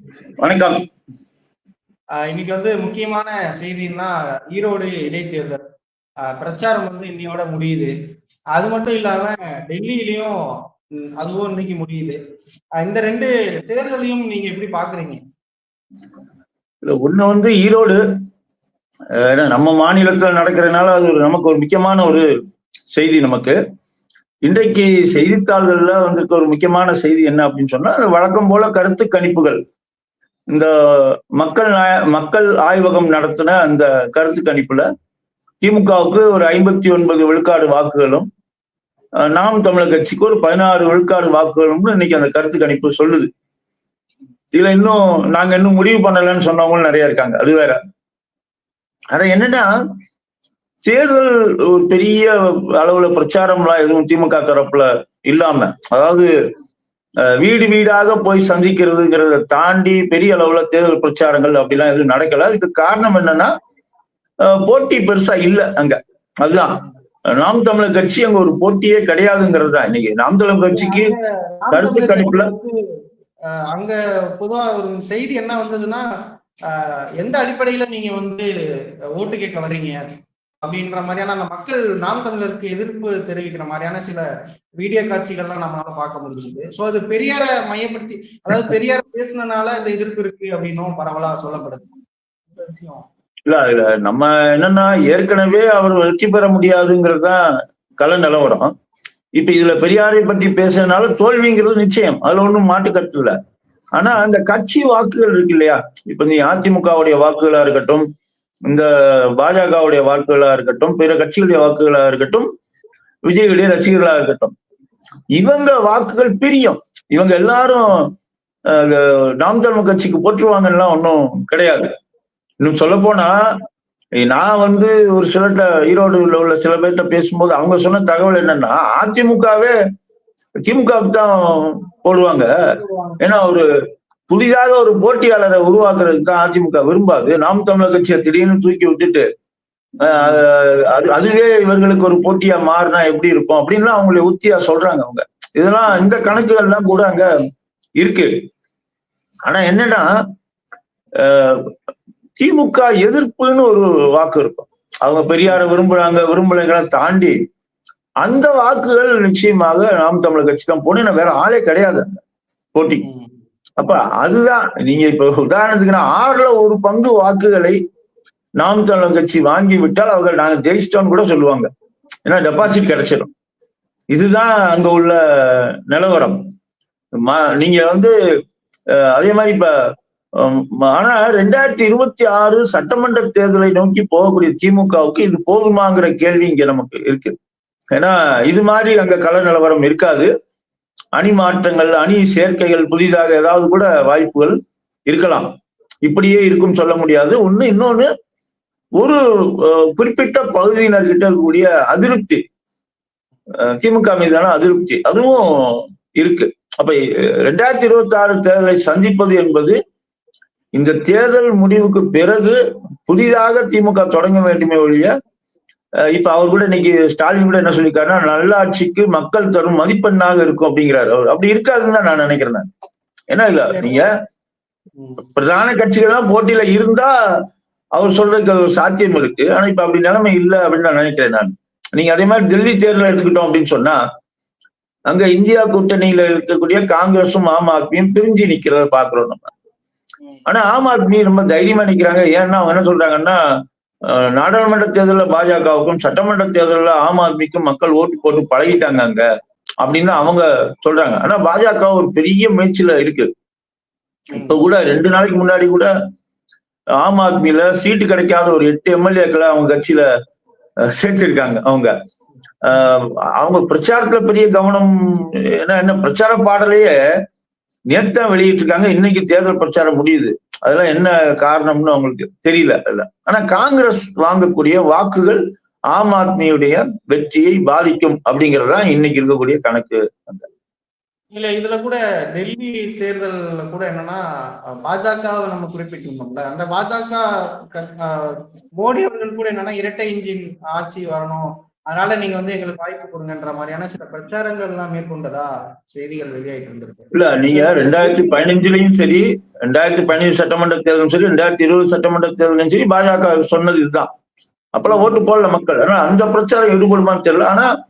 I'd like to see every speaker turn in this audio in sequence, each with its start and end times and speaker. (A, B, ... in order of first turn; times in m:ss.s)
0:00.4-0:00.8 A
0:02.2-0:05.6 B
0:06.3-0:07.9 B
0:08.5-0:10.3 B
0:11.2-0:12.2 B
0:12.8-0:15.2 B
0:16.8-0:18.0 A
0:19.2-0:22.3 A
0:22.9-0:23.6 A
0:24.4-0:29.6 A
0:30.5-0:34.8 A
0:35.6-0:38.3 A
0:39.2-0:43.3 A
0:44.5-0:47.8 A
0:49.1-0:49.7 A
0:50.8-0:56.3 A
0:57.2-1:03.5 A
1:04.4-1:06.8 A
1:07.4-1:11.1 A
1:10.7-1:12.7 B
1:11.7-1:12.5 A
1:13.7-1:16.1 B
1:16.7-1:18.5 B
1:19.2-1:24.2 B
1:24.8-1:31.9 B
1:32.5-1:33.0 B
1:33.5-1:37.4 A
1:38.0-1:38.7 A
1:39.4-1:43.3 A
1:44.0-1:48.0 A
1:48.7-1:52.5 A
1:53.2-1:54.5 A
1:55.4-1:58.1 A
1:58.7-2:01.9 A
2:02.6-2:03.3 A
2:04.2-2:09.7 A
2:10.6-2:12.5 A
2:12.6-2:13.2 B
2:13.2-2:13.6 A
2:14.3-2:19.2 A
2:20.0-2:27.3 A
2:20.0-2:20.4 B
2:28.0-2:28.3 A
2:29.4-2:30.1 A
2:31.2-2:31.7 A
2:32.4-2:37.3 A
2:38.2-2:42.2 A
2:42.7-2:43.0 A
2:43.0-2:43.3 B
2:43.8-2:47.8 A
2:48.6-2:51.7 A
2:52.2-2:53.3 A
2:54.1-2:56.4 A
2:57.1-2:58.1 A
2:58.9-2:59.7 A
3:00.4-3:07.4 A
3:07.9-3:10.3 A
3:11.2-3:14.6 A
3:15.1-3:15.5 A
3:16.0-3:18.1 A
3:19.0-3:22.4 A
3:23.6-3:29.8 A
3:30.7-3:35.1 A
3:36.1-3:42.6 A
3:43.3-3:44.1 A
3:43.7-3:44.0 B
3:45.0-3:45.3 B
3:45.3-3:47.1 A
3:48.0-3:54.0 A
3:55.1-3:59.4 A
4:00.5-4:03.4 A
4:04.1-4:09.2 A
4:09.8-4:13.3 A
4:14.3-4:14.6 B
4:14.3-4:15.9 A
4:17.0-4:20.0 A
4:20.8-4:21.9 A
4:22.6-4:26.9 A
4:27.9-4:35.4 A
4:35.9-4:40.5 A
4:41.3-4:58.4 B
4:57.1-5:04.1 A
5:04.7-5:07.7 A
5:04.8-5:05.2 B